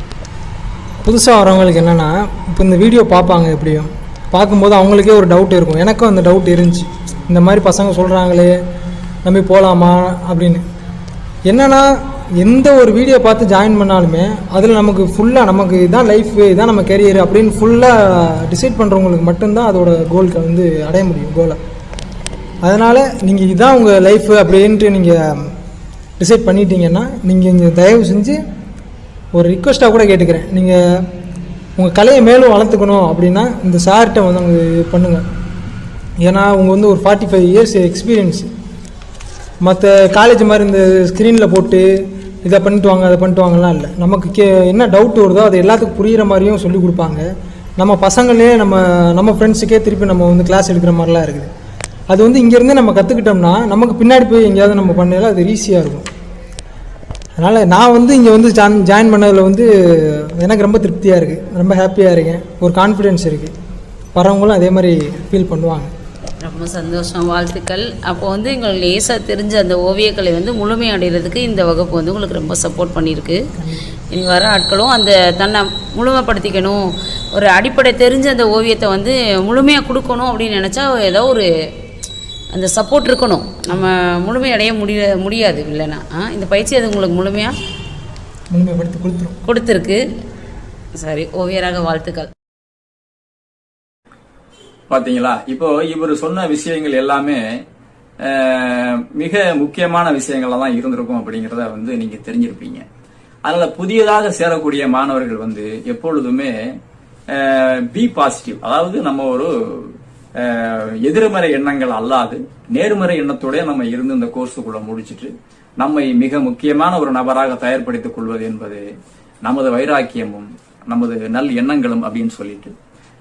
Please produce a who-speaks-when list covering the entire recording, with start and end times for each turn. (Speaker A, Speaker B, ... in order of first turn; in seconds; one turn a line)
Speaker A: 1.0-8.6
Speaker A: 9.2-10.6
Speaker A: 11.5-21.6
Speaker A: 22.6-25.5
Speaker A: 26.2-28.4
Speaker A: 29.3-30.8
Speaker A: 31.8-35.2
Speaker A: 36.2-38.5
Speaker A: 39.6-41.9
Speaker A: 42.4-47.2
Speaker A: 47.8-51.5
Speaker A: 52.1-56.1
Speaker A: 57.4-63.5
Speaker A: 64.1-65.9
Speaker B: 66.4-73.5
Speaker A: 73.6-73.9
Speaker B: 74.1-81.5
Speaker B: 82.5-87.5
Speaker A: 88.5-89.4
Speaker B: 89.4-90.0
Speaker B: 91.0-92.3
Speaker C: 94.9-97.5
Speaker C: 98.2-102.8
Speaker C: 103.5-106.5
Speaker C: 107.3-118.8
Speaker C: 119.4-122.8